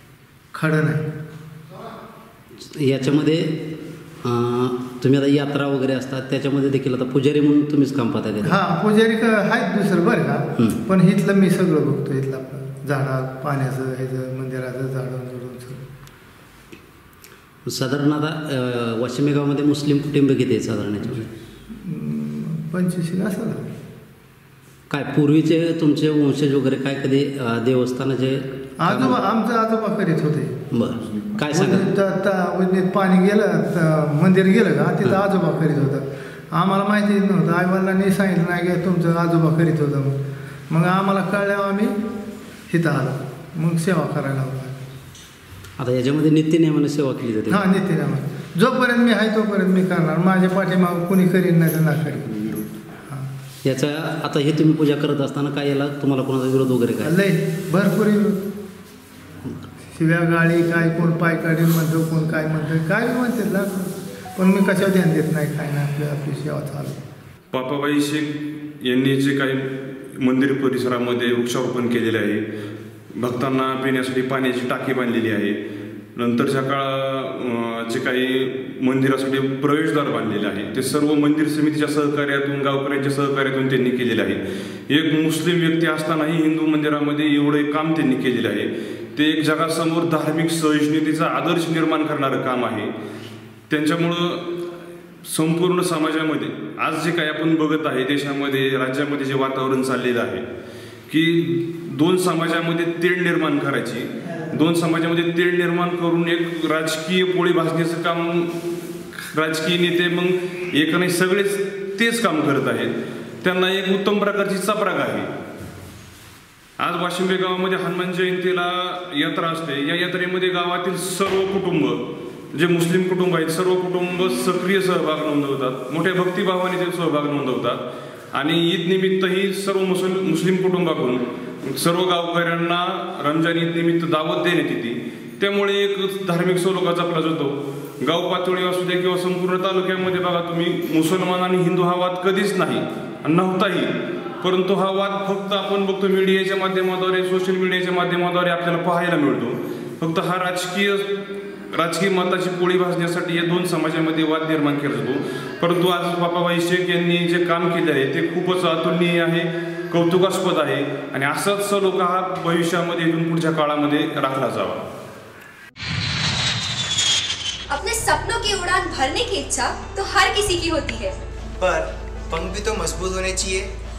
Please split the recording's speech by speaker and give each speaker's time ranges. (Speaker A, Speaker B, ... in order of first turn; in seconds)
Speaker A: 0.5-1.1, 8.4-15.8, 21.7-23.6, 28.8-30.6, 31.5-40.2, 40.7-42.0, 42.7-44.8, 47.5-53.3, 57.0-58.4, 59.9-67.0
Speaker B: 2.6-8.6, 17.7-21.3, 24.9-29.2, 30.7-31.9, 45.8-47.6, 53.6-57.1
Speaker C: 67.5-68.3, 68.8-72.4, 73.2-75.6, 76.2-92.9, 93.7-94.5, 95.3-100.5, 101.1-115.3, 116.8-122.0, 122.5-127.8, 128.3-164.8
Speaker D: 167.7-171.1
Speaker E: 171.6-173.7